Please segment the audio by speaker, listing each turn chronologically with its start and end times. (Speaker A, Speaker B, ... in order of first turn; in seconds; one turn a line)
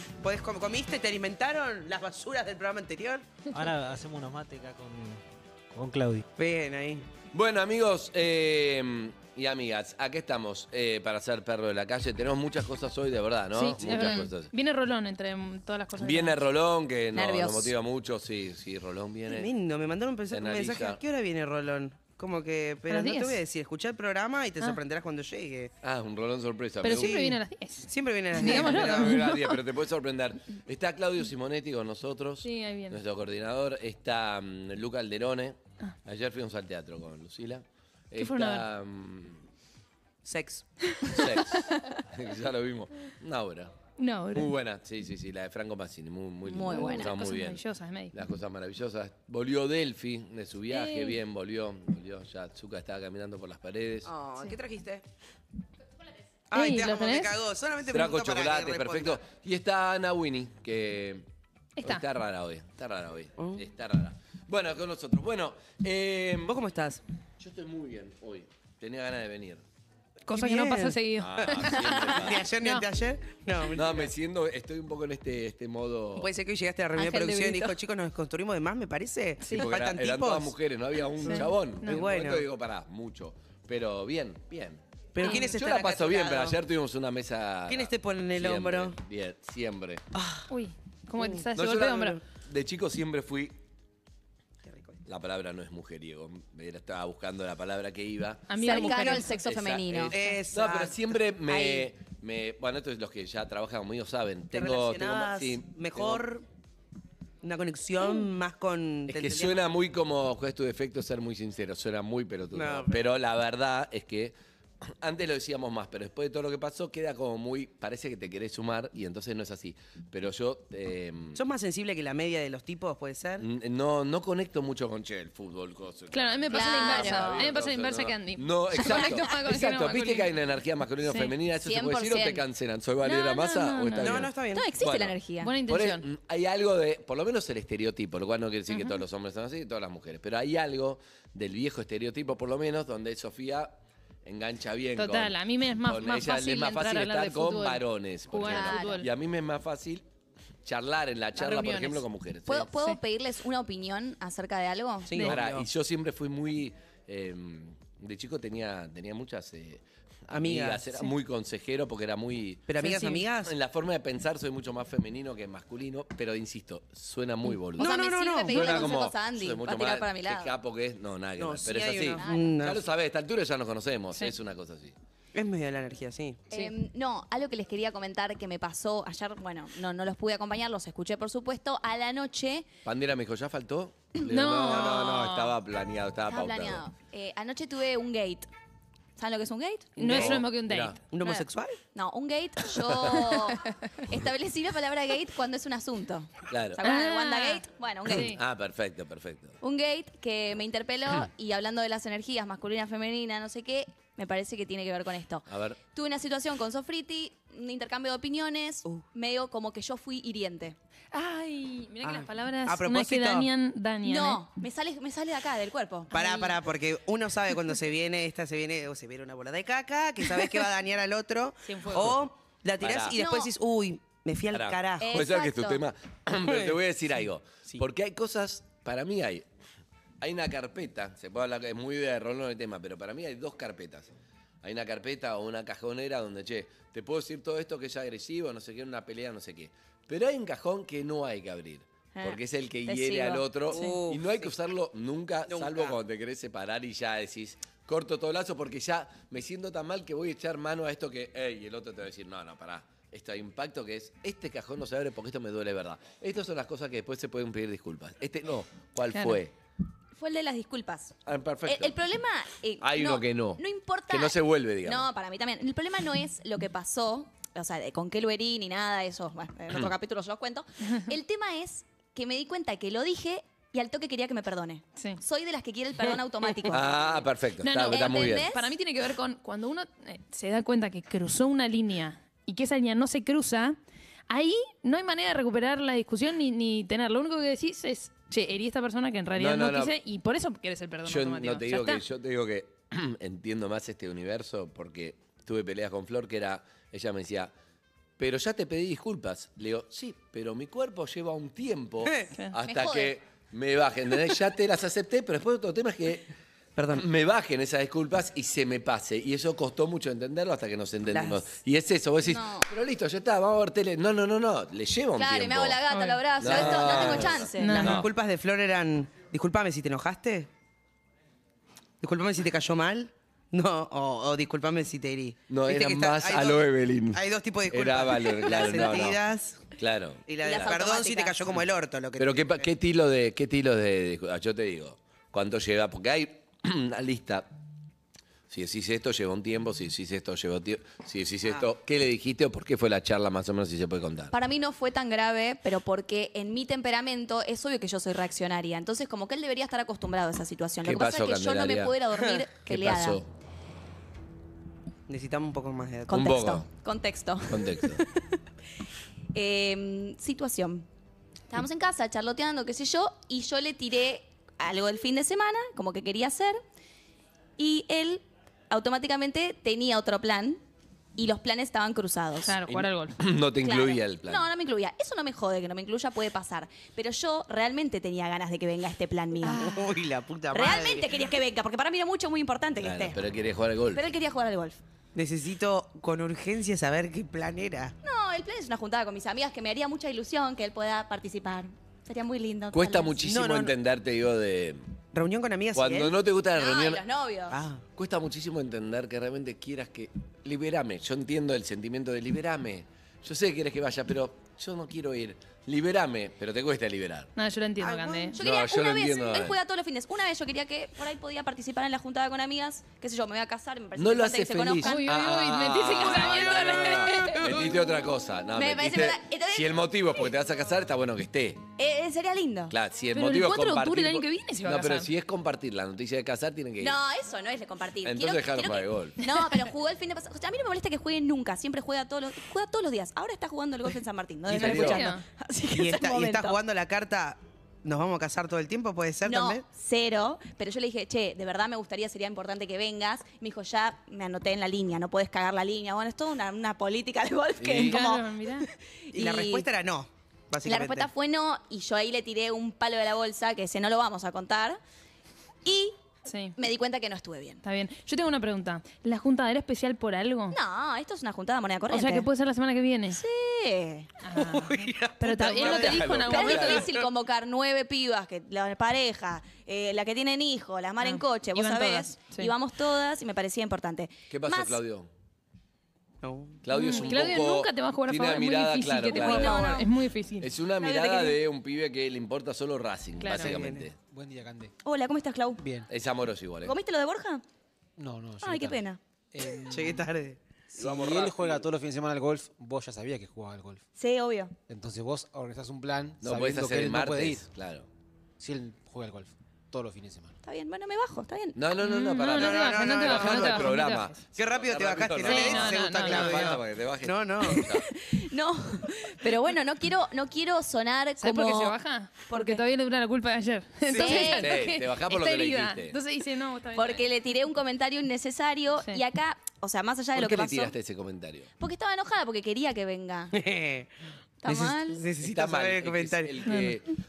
Speaker A: 0.2-3.3
Speaker B: 3.5-5.2
Speaker B: 5.7-6.2
Speaker A: 6.4-7.1
Speaker C: 7.3-14.5
Speaker D: 13.5-16.4
Speaker C: 16.0-19.5
Speaker E: 17.1-17.7
Speaker A: 19.3-25.7
Speaker C: 20.3-21.0
Speaker D: 22.9-23.4
Speaker C: 25.8-27.4
Speaker D: 26.8-29.6
Speaker A: 26.9-29.2
Speaker C: 28.4-39.4
Speaker D: 32.4-33.0
Speaker D: 38.2-38.7
Speaker A: 40.2-40.7
Speaker D: 41.1-41.6
Speaker C: 41.1-43.8
Speaker D: 44.0-44.5
Speaker C: 44.3-54.1
Speaker E: 46.5-47.1
Speaker D: 46.7-48.1
Speaker D: 50.7-51.2
Speaker A: 54.1-55.0
Speaker A: 56.5-59.2
Speaker D: 56.5-57.4
Speaker C: 57.9-61.2
Speaker D: 61.8-62.0
Speaker C: 61.8-66.5
Speaker A: 66.5-67.0
Speaker C: 67.4-69.6
Speaker D: 70.3-72.0
Speaker A: 70.3-74.1
Speaker C: 71.2-72.5
Speaker C: 73.7-76.3
Speaker A: 76.2-80.5
Speaker E: 77.0-77.8
Speaker C: 79.5-90.0
Speaker D: 81.2-82.1
Speaker A: 81.3-82.4
Speaker A: 85.2-86.6
Speaker D: 85.2-85.5
Speaker A: 87.7-89.0
Speaker A: 90.2-90.5
Speaker D: 90.5-92.2
Speaker C: 91.5-93.6
Speaker A: 94.6-95.0
Speaker C: 95.0-98.6
Speaker D: 98.5-99.3
Speaker E: 98.6-100.1
Speaker A: 98.6-99.2
Speaker C: 99.2-106.2
Speaker A: 100.1-101.0
Speaker E: 101.5-101.9
Speaker A: 104.5-106.4
Speaker A: 107.4-109.6
Speaker C: 109.1-114.3
Speaker A: 112.5-113.0
Speaker C: 115.0-121.4
Speaker A: 121.3-123.5
Speaker C: 123.4-135.2
Speaker D: 126.1-130.3
Speaker E: 126.5-127.5
Speaker D: 131.0-131.3
Speaker E: 131.6-132.4
Speaker D: 133.0-134.2
Speaker A: 134.0-134.7
Speaker E: 134.5-135.5
Speaker D: 135.4-136.1
Speaker C: 135.7-150.1
Speaker D: 138.7-139.0
Speaker D: 145.0-149.1
Speaker E: 148.4-149.0
Speaker C: 150.7-152.7
Speaker D: 151.4-152.0
Speaker E: 152.5-155.2
Speaker A: 155.1-155.7
Speaker C: 155.2-174.9
Speaker A: 160.3-161.0
Speaker A: 162.7-163.5
Speaker E: 167.8-170.5
Speaker A: 167.8-168.8
Speaker A: 171.4-172.8
Speaker E: 172.1-172.6
Speaker A: 175.3-176.4
Speaker E: 176.5-182.7
Speaker C: 182.8-186.8
Speaker D: 184.2-185.5
Speaker E: 186.3-188.5
Speaker E: 189.2-190.3
Speaker D: 190.0-191.0
Speaker C: 190.1-191.0
Speaker A: 191.1-191.8
Speaker E: 191.2-198.3
Speaker C: 196.5-196.8
Speaker D: 196.8-198.4
Speaker C: 198.1-199.6
Speaker E: 199.6-210.8
Speaker C: 205.5-205.8
Speaker D: 211.1-214.4
Speaker A: 212.0-213.5
Speaker E: 214.0-216.1
Speaker A: 216.1-225.2
Speaker D: 216.1-216.6
Speaker D: 221.7-222.0
Speaker C: 222.8-223.2
Speaker E: 223.1-223.5
Speaker C: 224.5-229.5
Speaker E: 225.0-225.8
Speaker A: 226.5-226.7
Speaker C: 230.2-234.1
Speaker C: 234.6-259.5
Speaker E: 242.2-244.0
Speaker A: 243.7-244.5
Speaker A: 245.5-245.9
Speaker D: 259.1-259.4
Speaker E: 260.1-261.1
Speaker C: 261.2-262.0
Speaker E: 261.7-276.9
Speaker C: 262.8-265.1
Speaker C: 276.7-278.5
Speaker D: 277.6-283.8
Speaker E: 277.9-278.7
Speaker D: 284.3-292.0
Speaker C: 289.4-290.0
Speaker C: 291.1-297.5
Speaker C: 298.2-306.3
Speaker E: 302.6-303.1
Speaker A: 306.8-307.1
Speaker C: 306.9-315.8
Speaker A: 311.1-311.4
Speaker E: 312.2-312.7
Speaker E: 315.2-317.8
Speaker D: 315.9-316.2
Speaker C: 316.4-318.1
Speaker A: 316.5-320.5
Speaker D: 317.6-318.0
Speaker A: 322.0-326.6
Speaker C: 325.5-329.2
Speaker A: 327.1-329.7
Speaker C: 329.8-330.2
Speaker A: 330.3-332.7
Speaker E: 330.4-331.4
Speaker C: 332.2-337.5
Speaker C: 338.5-344.3
Speaker E: 344.3-353.2
Speaker C: 350.8-352.0
Speaker C: 352.6-353.3
Speaker A: 355.1-356.3
Speaker C: 356.1-356.7
Speaker E: 356.1-358.1
Speaker C: 357.5-358.0
Speaker E: 359.3-360.9
Speaker E: 361.5-366.6
Speaker E: 367.6-370.6
Speaker E: 371.2-372.6
Speaker D: 372.5-373.2
Speaker C: 372.7-374.5
Speaker E: 373.6-379.9
Speaker A: 379.4-381.2
Speaker E: 380.5-383.2
Speaker C: 382.8-384.0
Speaker E: 383.9-384.8
Speaker A: 385.1-387.9
Speaker E: 388.0-393.2
Speaker C: 392.7-394.9
Speaker A: 393.2-393.8
Speaker A: 395.1-396.1
Speaker C: 395.7-397.0
Speaker E: 396.6-397.6
Speaker A: 397.5-397.8
Speaker C: 398.0-407.3
Speaker D: 407.4-408.4
Speaker A: 407.8-408.3
Speaker E: 408.4-415.0
Speaker C: 408.4-409.6
Speaker C: 414.0-421.6
Speaker D: 414.8-417.6
Speaker A: 417.5-417.7
Speaker E: 418.6-420.3
Speaker E: 421.8-422.8
Speaker C: 422.7-427.0
Speaker D: 423.1-425.1
Speaker E: 426.8-436.6
Speaker C: 428.1-429.2
Speaker C: 434.5-435.1
Speaker D: 434.6-435.2
Speaker A: 435.7-439.6
Speaker E: 439.2-448.3
Speaker C: 447.6-448.0
Speaker D: 447.8-448.7
Speaker E: 449.1-449.7
Speaker A: 449.1-451.1
Speaker E: 450.6-454.8
Speaker E: 455.6-455.9
Speaker D: 456.2-456.5
Speaker E: 456.6-457.6
Speaker D: 457.6-460.6
Speaker E: 460.5-462.3
Speaker D: 461.9-463.2
Speaker E: 463.1-464.1
Speaker D: 464.2-466.8
Speaker A: 464.4-466.7
Speaker C: 465.4-466.9
Speaker E: 466.3-474.8
Speaker D: 471.0-472.5
Speaker C: 474.3-475.1
Speaker A: 476.2-476.6
Speaker C: 476.6-479.7
Speaker D: 476.7-480.5
Speaker E: 479.1-479.9
Speaker A: 479.3-479.8
Speaker C: 480.4-483.9
Speaker E: 480.8-481.4
Speaker D: 483.2-483.7
Speaker A: 483.4-483.9
Speaker B: 484.0-484.7
Speaker E: 484.8-485.6
Speaker B: 485.6-485.9
Speaker C: 485.9-486.8
Speaker E: 486.6-487.4
Speaker B: 488.0-488.8
Speaker E: 488.4-489.0
Speaker B: 489.3-490.1
Speaker A: 489.7-490.4
Speaker B: 490.7-493.8
Speaker C: 490.8-491.6
Speaker E: 494.0-494.5
Speaker B: 494.7-497.5
Speaker C: 496.2-497.9
Speaker B: 498.4-500.3
Speaker E: 500.4-501.6
Speaker C: 501.6-507.9
Speaker D: 501.8-504.2
Speaker A: 502.4-503.7
Speaker A: 504.4-507.7
Speaker D: 505.2-506.5
Speaker E: 507.5-511.8
Speaker D: 511.2-517.0
Speaker E: 512.3-512.6
Speaker E: 513.9-514.6
Speaker C: 514.0-516.0
Speaker E: 516.8-520.7
Speaker C: 520.1-521.5
Speaker E: 521.6-523.3
Speaker A: 523.3-523.9
Speaker E: 524.4-525.0
Speaker A: 524.5-526.3
Speaker C: 525.2-526.9
Speaker D: 526.5-526.8